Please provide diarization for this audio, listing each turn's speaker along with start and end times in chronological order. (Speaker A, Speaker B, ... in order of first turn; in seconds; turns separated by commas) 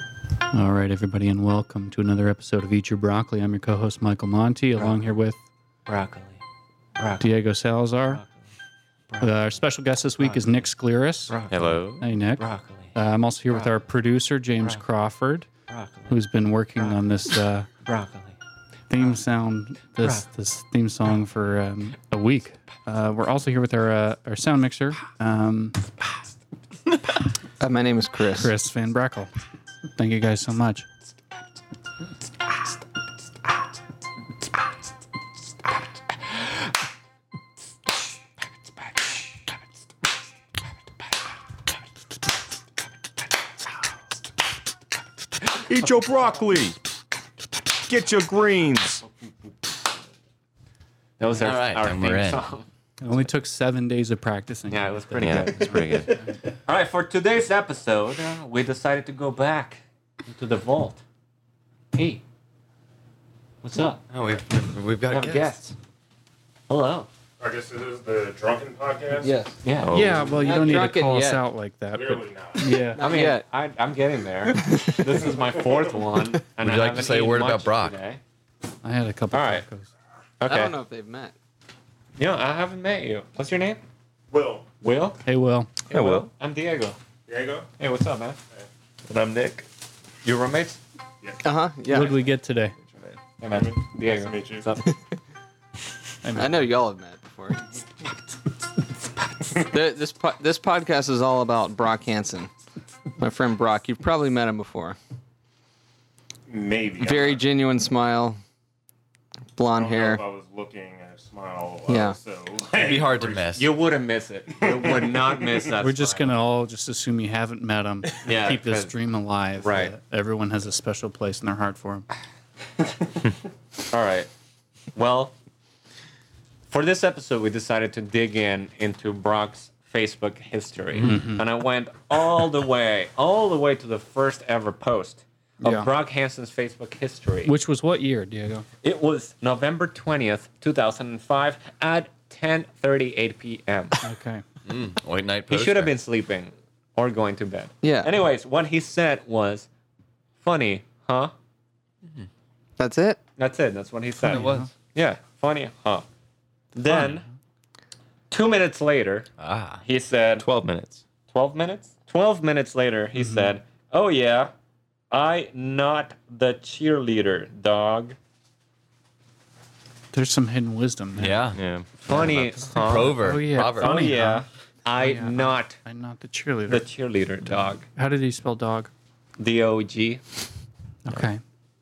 Speaker A: 0.5-5.4, Speaker B: 5.9-6.4, Speaker B: 7.0-7.2, Speaker A: 7.2-8.2, Speaker B: 8.1-8.4, Speaker A: 9.2-11.4, Speaker B: 11.3-11.8, Speaker C: 11.5-12.1, Speaker A: 12.0-12.4, Speaker B: 12.4-12.9, Speaker A: 12.9-15.5, Speaker B: 15.7-16.2, Speaker A: 16.1-17.7, Speaker B: 17.8-18.4, Speaker A: 18.9-25.8, Speaker D: 27.6-28.5, Speaker A: 28.3-29.3, Speaker A: 29.9-30.9, Speaker C: 45.7-46.8, Speaker C: 47.9-49.0, Speaker B: 51.2-52.6, Speaker E: 51.4-52.4, Speaker A: 53.0-56.4, Speaker B: 54.7-55.8, Speaker C: 55.2-56.1, Speaker B: 56.5-61.0, Speaker B: 61.9-62.2, Speaker B: 63.6-64.0, Speaker E: 64.1-65.6, Speaker B: 65.1-65.7, Speaker B: 66.7-67.1, Speaker F: 67.4-69.3, Speaker D: 69.2-69.6, Speaker B: 69.6-70.1, Speaker C: 69.8-70.5, Speaker A: 69.9-73.0, Speaker D: 70.4-71.4, Speaker F: 71.9-72.7, Speaker D: 72.9-73.5, Speaker B: 73.0-78.2, Speaker D: 74.5-75.3, Speaker E: 76.6-78.0, Speaker A: 78.8-79.9, Speaker B: 79.3-79.6, Speaker B: 80.4-80.7, Speaker D: 80.5-81.3, Speaker B: 82.2-83.8, Speaker F: 84.3-84.7, Speaker B: 84.8-85.2, Speaker A: 85.2-85.7, Speaker B: 85.9-87.0, Speaker C: 85.9-86.3, Speaker F: 87.3-87.7, Speaker B: 87.8-88.4, Speaker C: 89.1-89.6, Speaker B: 90.2-90.8, Speaker D: 91.4-92.2, Speaker A: 91.9-92.8, Speaker B: 93.4-94.9, Speaker F: 93.5-94.7, Speaker A: 96.2-96.6, Speaker D: 96.3-97.8, Speaker D: 99.6-102.5, Speaker D: 103.2-105.0, Speaker F: 106.5-107.4, Speaker D: 107.0-108.4, Speaker D: 109.5-110.2, Speaker F: 109.7-113.6, Speaker D: 111.9-112.2, Speaker E: 112.7-113.7, Speaker B: 113.5-116.3, Speaker A: 115.8-122.1, Speaker B: 118.2-118.9, Speaker B: 119.6-119.9, Speaker B: 123.9-124.3, Speaker B: 124.9-125.3, Speaker B: 126.7-137.5, Speaker A: 131.0-131.4, Speaker A: 135.6-135.9, Speaker A: 137.4-138.6, Speaker B: 138.8-144.0, Speaker A: 144.0-144.4, Speaker E: 144.7-146.0, Speaker B: 145.5-149.7, Speaker D: 147.8-148.1, Speaker B: 150.4-151.3, Speaker D: 152.8-153.2, Speaker B: 153.4-156.0, Speaker A: 154.2-154.7, Speaker E: 154.3-154.7, Speaker B: 156.7-157.2, Speaker A: 156.9-157.2, Speaker B: 158.3-159.3, Speaker E: 159.4-159.8, Speaker B: 159.8-160.4, Speaker C: 160.4-161.0, Speaker B: 161.3-164.5, Speaker A: 163.2-163.5, Speaker B: 165.1-168.2, Speaker A: 170.1-171.4, Speaker E: 171.2-174.1, Speaker C: 171.5-172.0, Speaker B: 172.0-175.8, Speaker A: 172.6-174.4, Speaker A: 175.0-176.8, Speaker B: 176.7-177.8, Speaker A: 177.4-178.9, Speaker B: 179.4-180.2, Speaker A: 181.1-181.4